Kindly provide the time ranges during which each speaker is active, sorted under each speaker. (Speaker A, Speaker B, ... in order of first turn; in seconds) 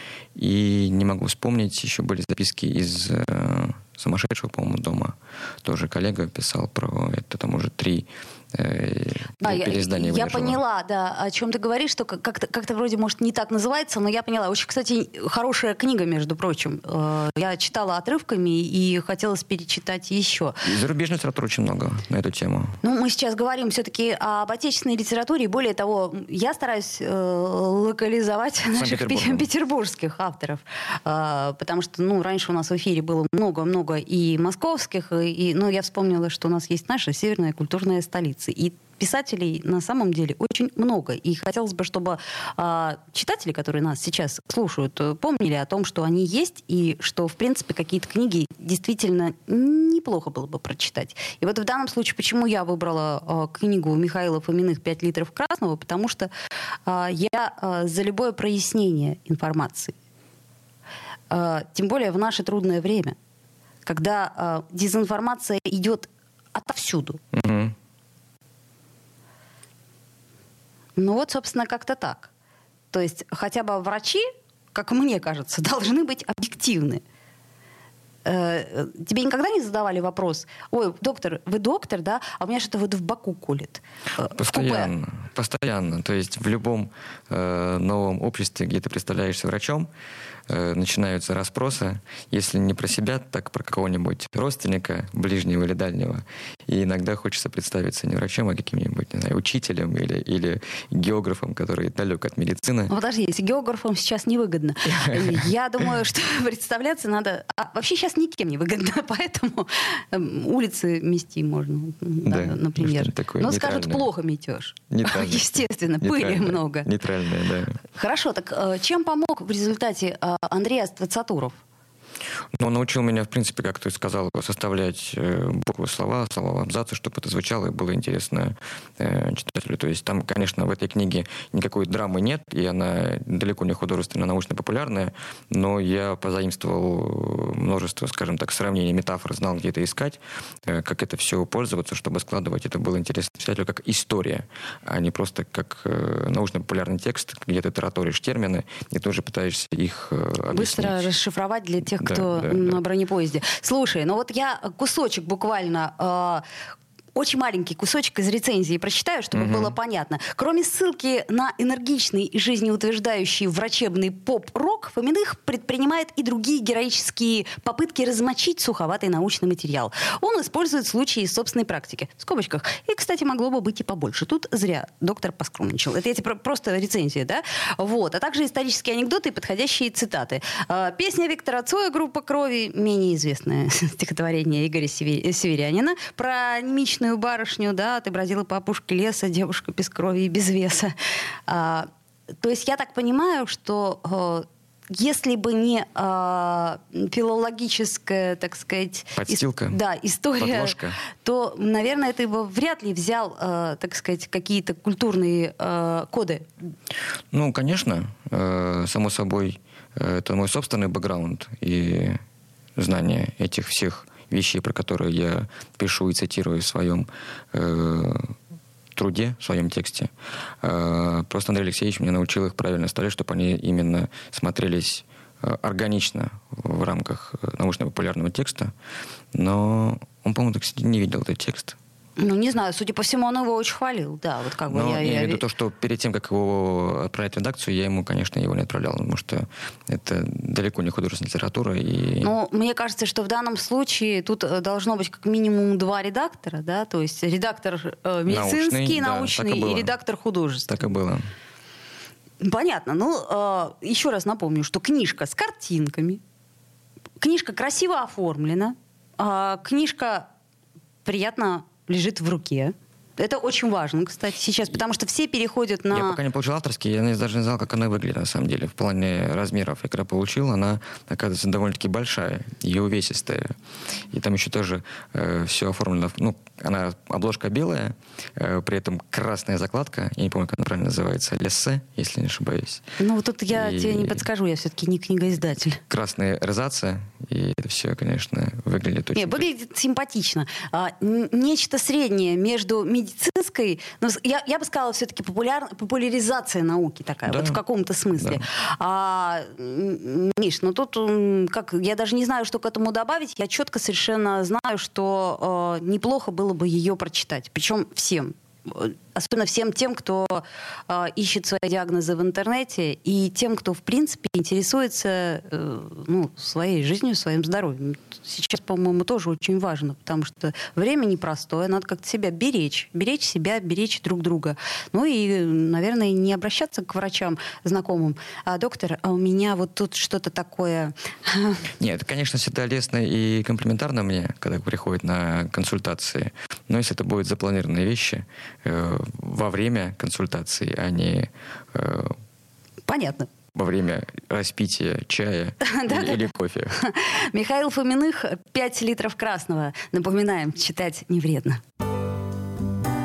Speaker A: 0.3-10.6, 20.6-22.8, 28.7-29.4, 67.3-67.7, 84.3-89.9, 90.5-102.9, 104.9-105.4, 112.2-114.1, 114.9-117.8, 122.5-151.1, 152.0-152.8, 159.3-159.8, 199.1-199.8, 200.4-201.0, 207.3-212.2, 212.8-218.3, 218.9-228.7, 229.3-231.8, 234.7-242.3, 248.3-249.9, 250.7-251.2, 265.9-273.6, 274.1-282.8, 283.5-284.2, 285.9-289.4, 297.2-297.6, 298.1-298.4, 331.8-342.1, 343.5-346.8
Speaker B: 9.4-20.6, 22.8-56.3, 56.9-59.9, 61.3-63.1, 63.8-67.2, 71.0-72.3, 72.9-77.0, 78.2-84.9, 102.9-116.9, 117.9-121.6, 150.5-156.4, 157.2-190.9, 191.5-191.9, 192.4-206.5, 232.2-235.4, 242.2-250.9, 252.4-256.2, 257.2-260.3, 261.0-266.2, 283.0-285.8, 289.1-331.7, 342.9-343.3, 345.6-351.6